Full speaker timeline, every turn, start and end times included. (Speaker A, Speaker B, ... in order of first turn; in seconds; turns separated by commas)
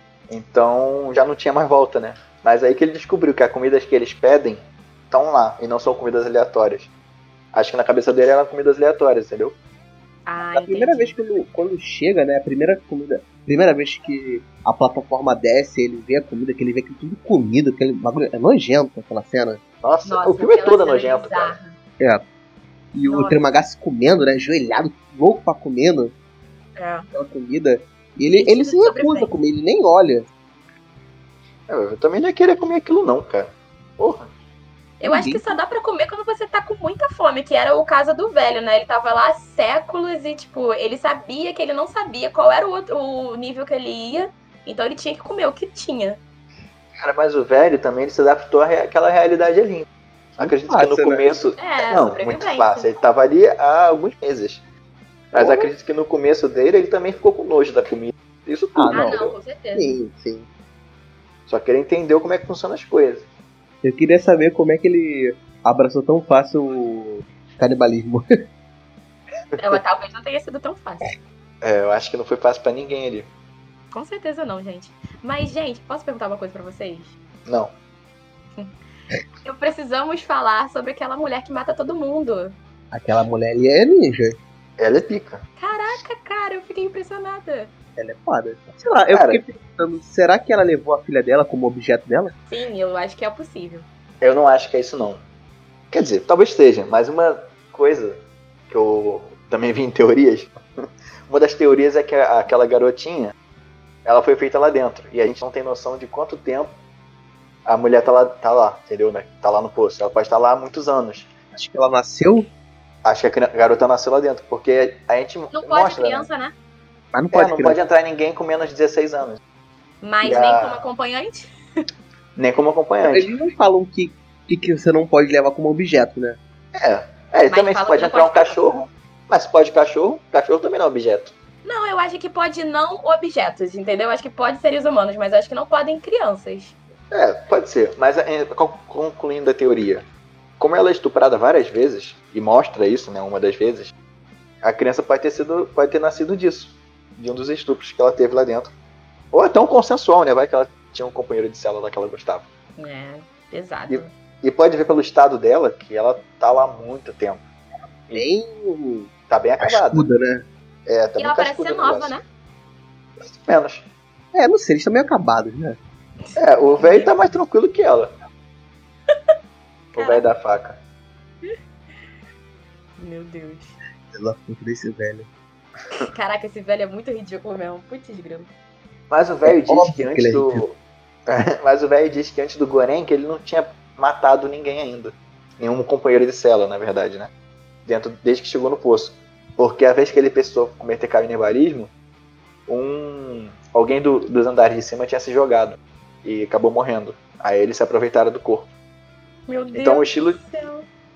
Speaker A: 0.3-6.9, Speaker A: 7.5-9.6, Speaker B: 10.3-11.2, Speaker C: 10.5-19.6, Speaker A: 19.8-21.6, Speaker B: 20.1-21.8, Speaker C: 22.9-26.1, Speaker B: 23.1-23.4, Speaker B: 26.8-27.1, Speaker C: 27.1-30.3, Speaker B: 28.3-29.3, Speaker A: 31.7-34.3, Speaker B: 35.0-46.2, Speaker C: 35.0-35.5, Speaker A: 47.0-49.9, Speaker A: 50.4-54.6, Speaker C: 50.4-51.2, Speaker B: 51.6-52.9, Speaker C: 55.3-55.7, Speaker A: 55.3-59.3, Speaker C: 58.8-60.5, Speaker B: 58.9-60.0, Speaker A: 61.5-63.3, Speaker C: 63.8-68.3, Speaker B: 69.6-71.1, Speaker A: 71.6-73.3, Speaker B: 73.9-77.1, Speaker A: 77.5-77.7, Speaker B: 79.4-82.6, Speaker C: 82.9-84.4, Speaker A: 84.8-85.4, Speaker B: 85.6-87.7, Speaker C: 88.0-92.3, Speaker A: 89.1-89.4, Speaker B: 92.5-93.9, Speaker A: 94.2-95.2, Speaker A: 95.9-98.2, Speaker A: 98.7-100.5, Speaker A: 101.3-103.3, Speaker A: 104.0-106.7, Speaker A: 107.7-111.3, Speaker C: 111.5-112.5, Speaker A: 113.0-116.3, Speaker B: 115.5-116.5, Speaker C: 117.1-117.8, Speaker A: 117.3-119.4, Speaker B: 120.0-121.5, Speaker A: 120.2-120.8, Speaker A: 122.4-123.3, Speaker C: 123.1-126.4, Speaker A: 126.8-131.3, Speaker B: 127.5-128.7, Speaker B: 131.7-136.8, Speaker A: 137.1-140.1, Speaker A: 140.6-143.9, Speaker A: 144.6-148.7, Speaker A: 149.3-152.5, Speaker B: 152.8-154.1, Speaker A: 153.9-157.4, Speaker C: 158.1-160.4, Speaker A: 159.3-160.1, Speaker A: 160.9-162.2, Speaker B: 161.2-162.2, Speaker A: 163.2-163.9, Speaker C: 164.3-165.8, Speaker B: 166.3-167.1, Speaker A: 166.4-168.1, Speaker A: 169.9-170.8, Speaker B: 170.0-170.3, Speaker B: 173.0-173.8, Speaker C: 174.1-175.3, Speaker B: 175.9-178.5, Speaker A: 179.1-187.3, Speaker C: 179.5-180.6, Speaker A: 187.9-191.9, Speaker A: 192.7-198.7, Speaker B: 199.5-200.9, Speaker A: 199.7-200.4